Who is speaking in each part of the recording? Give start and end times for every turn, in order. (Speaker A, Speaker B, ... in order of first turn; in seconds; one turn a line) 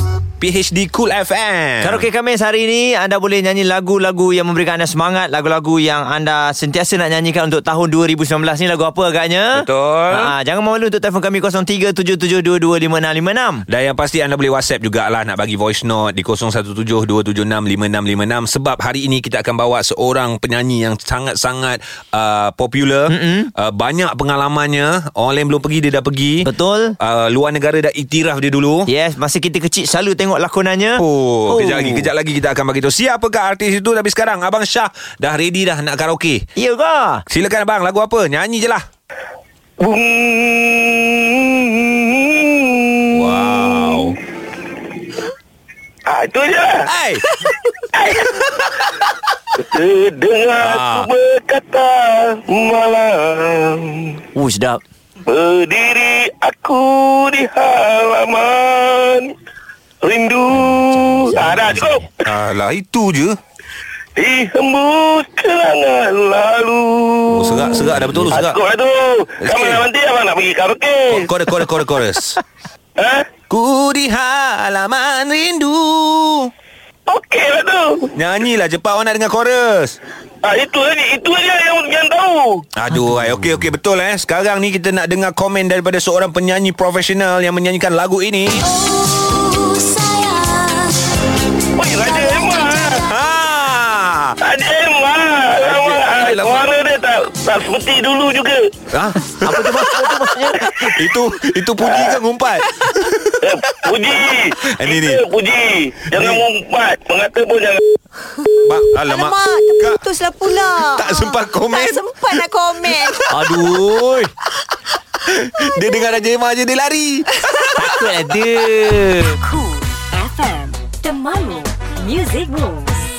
Speaker A: 0.4-2.1
Speaker B: 1.8-13.7
Speaker A: 9.5-10.3
Speaker A: 13.7-26.5
Speaker B: 23.1-23.5
Speaker B: 26.4-27.0
Speaker A: 27.0-28.9
Speaker B: 28.9-32.1
Speaker A: 31.0-36.5
Speaker B: 36.6-37.2
Speaker A: 37.3-38.9
Speaker C: 39.8-44.0
Speaker A: 43.1-44.2
Speaker C: 46.1-46.9
Speaker A: 46.9-47.2
Speaker C: 48.0-48.5
Speaker C: 49.6-54.2
Speaker A: 50.6-51.1
Speaker B: 54.4-54.8
Speaker C: 55.3-59.3
Speaker C: 60.0-62.0
Speaker B: 61.1-62.0
Speaker A: 62.2-63.4
Speaker C: 64.2-71.3
Speaker A: 67.3-68.6
Speaker A: 69.4-69.8
Speaker A: 71.1-72.4
Speaker C: 73.0-73.3
Speaker A: 73.5-76.5
Speaker C: 77.1-78.1
Speaker A: 78.2-80.0
Speaker C: 80.4-82.7
Speaker A: 82.8-88.7
Speaker C: 91.8-93.0
Speaker D: 92.4-93.0
Speaker A: 92.9-94.4
Speaker C: 94.4-98.7
Speaker A: 95.6-96.7
Speaker A: 98.9-100.1
Speaker B: 99.4-100.8
Speaker A: 100.6-103.4
Speaker C: 101.8-102.2
Speaker C: 103.4-107.8
Speaker A: 104.7-105.2
Speaker A: 106.1-106.4
Speaker A: 108.6-110.0
Speaker D: 109.0-113.2
Speaker A: 110.9-112.0
Speaker A: 113.1-114.1
Speaker B: 113.3-114.3
Speaker A: 115.3-117.9
Speaker B: 117.7-119.4
Speaker E: 119.3-123.1